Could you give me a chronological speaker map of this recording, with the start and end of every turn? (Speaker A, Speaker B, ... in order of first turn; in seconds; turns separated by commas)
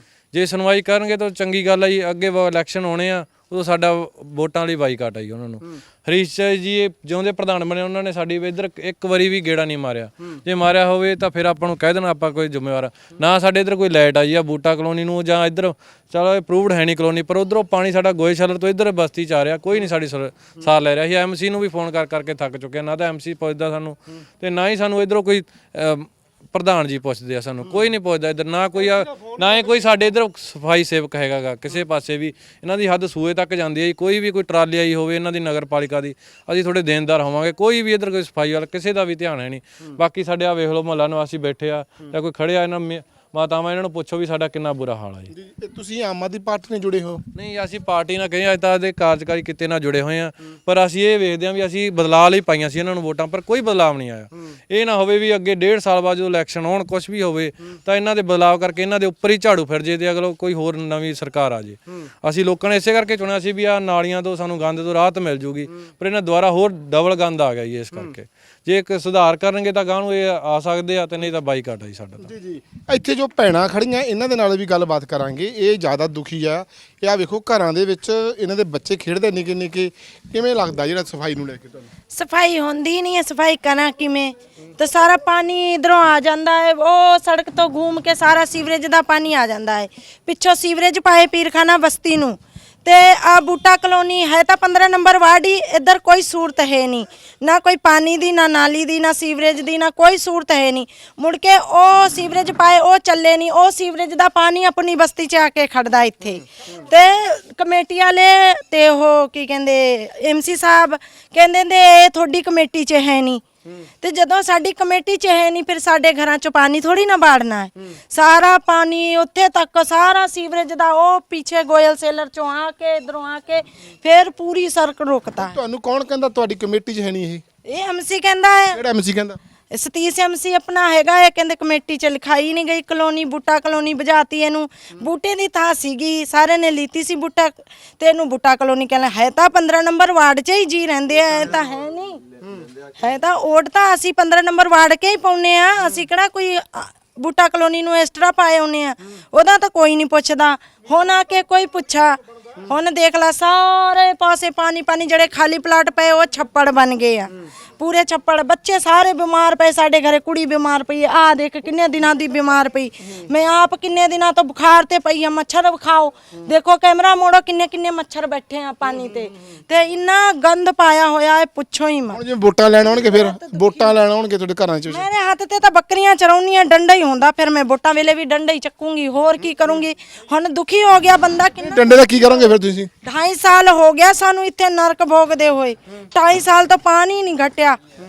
Speaker A: 0.3-45.3, Speaker B: 45.3-47.2, Speaker A: 47.4-72.3, Speaker B: 72.2-81.9, Speaker C: 82.1-113.4, Speaker C: 114.0-125.6, Speaker B: 125.4-127.4, Speaker C: 127.7-128.8, Speaker B: 128.7-129.4, Speaker C: 129.7-142.2, Speaker C: 143.0-172.2, Speaker B: 172.1-175.1, Speaker C: 173.1-173.9, Speaker C: 174.9-182.5, Speaker B: 181.6-182.9, Speaker C: 183.0-187.8